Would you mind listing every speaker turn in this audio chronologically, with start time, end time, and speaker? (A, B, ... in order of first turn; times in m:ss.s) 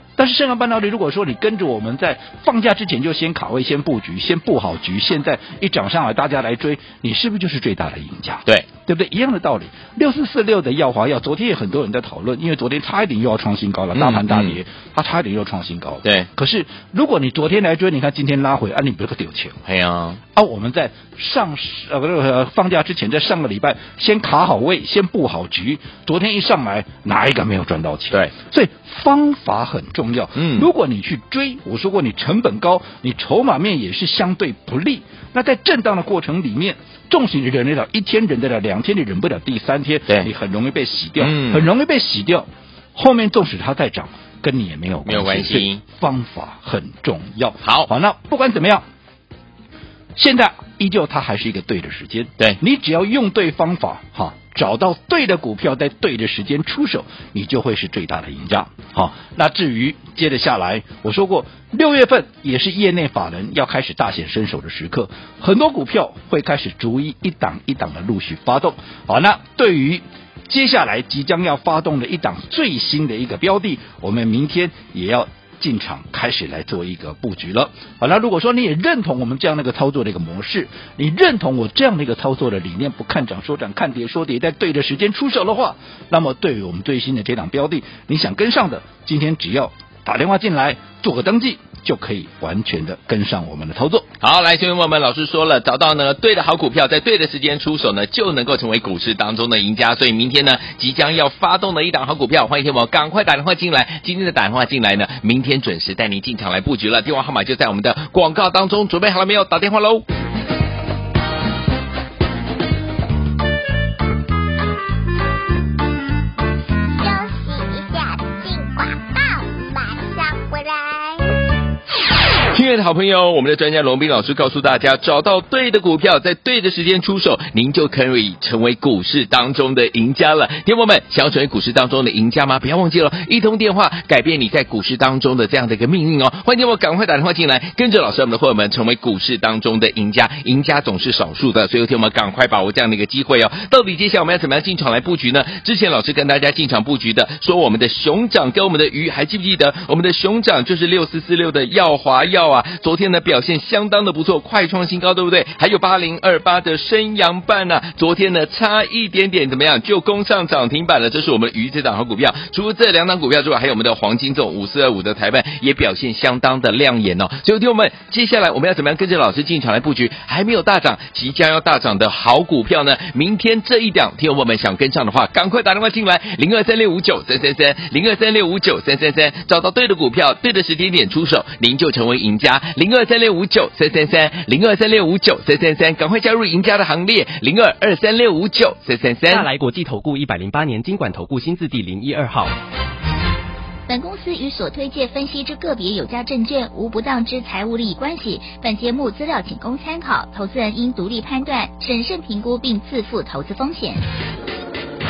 0:00.2-0:19.6 A
0:13.9-0:14.6 B
0:19.6-0:20.2 B
0:20.3-0:48.8 A
0:30.4-0:30.7 B
0:41.2-0:41.7 B
0:45.0-0:45.8 B
0:47.6-0:47.9 B
0:50.2-1:34.1 A
1:34.2-1:50.0 B
1:57.0-2:01.4 C
2:02.5-3:09.5 B
3:09.3-3:12.5 D
3:13.9-3:24.0 E